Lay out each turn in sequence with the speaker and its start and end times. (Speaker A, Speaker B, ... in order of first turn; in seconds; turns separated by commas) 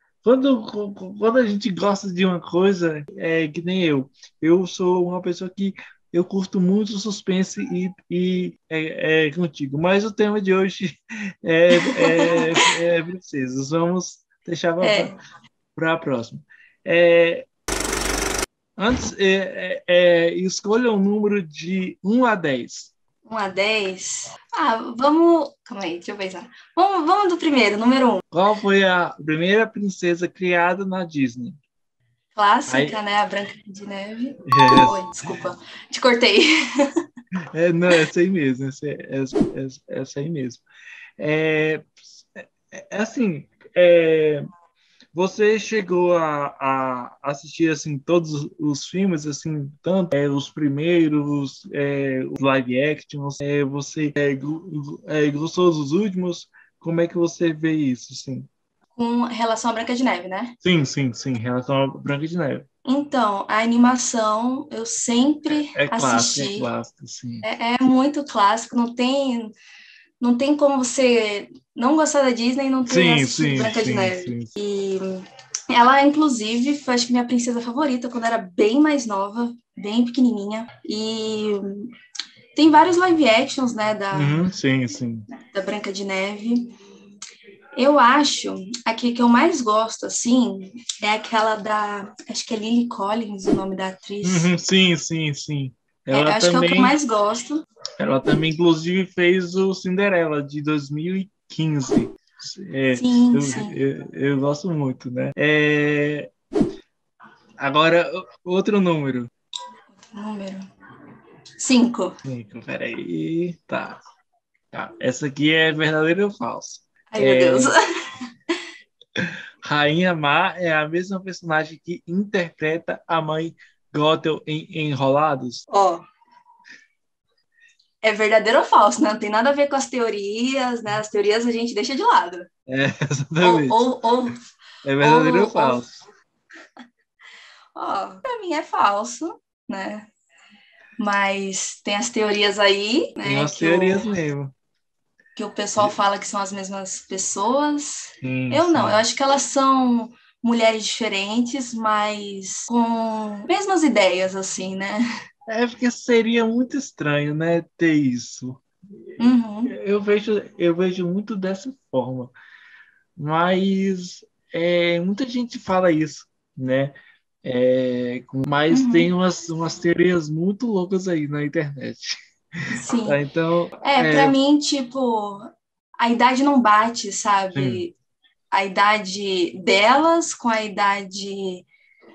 Speaker A: 0.2-15.1, Speaker B: 11.7-12.7, Speaker B: 14.8-15.1, Speaker A: 15.7-17.5, Speaker A: 18.8-22.9, Speaker B: 23.2-28.2, Speaker A: 28.3-31.6, Speaker B: 32.3-37.0, Speaker A: 32.7-33.0, Speaker A: 34.4-35.0, Speaker A: 37.5-40.6, Speaker A: 41.2-44.5, Speaker A: 45.1-58.5, Speaker B: 58.9-60.5, Speaker A: 60.6-62.6, Speaker B: 62.8-66.7, Speaker A: 65.7-67.5, Speaker B: 67.4-69.5, Speaker B: 70.2-81.9, Speaker A: 72.9-74.5, Speaker B: 82.5-84.4, Speaker A: 84.1-85.3, Speaker B: 85.4-86.7, Speaker B: 87.8-94.5, Speaker A: 94.2-96.9, Speaker B: 96.1-97.6, Speaker A: 98.0-106.3, Speaker B: 102.9-103.8, Speaker A: 107.6-109.3, Speaker B: 110.0-110.7, Speaker B: 111.6-112.2, Speaker A: 112.2-114.0, Speaker A: 114.7-117.8, Speaker B: 117.1-118.6, Speaker A: 119.2-125.7, Speaker B: 125.7-126.0, Speaker B: 128.0-132.5, Speaker A: 132.7-133.9, Speaker B: 133.4-134.4, Speaker A: 134.8-136.0, Speaker B: 135.0-135.8, Speaker B: 137.7-140.1, Speaker B: 141.0-144.0, Speaker A: 143.2-144.5, Speaker B: 145.3-155.0, Speaker A: 148.2-149.0, Speaker A: 155.5-162.3, Speaker B: 159.2-159.7, Speaker A: 163.2-174.3, Speaker B: 168.7-169.1, Speaker B: 172.7-173.2, Speaker B: 173.8-177.9, Speaker A: 177.5-177.8, Speaker B: 178.5-181.7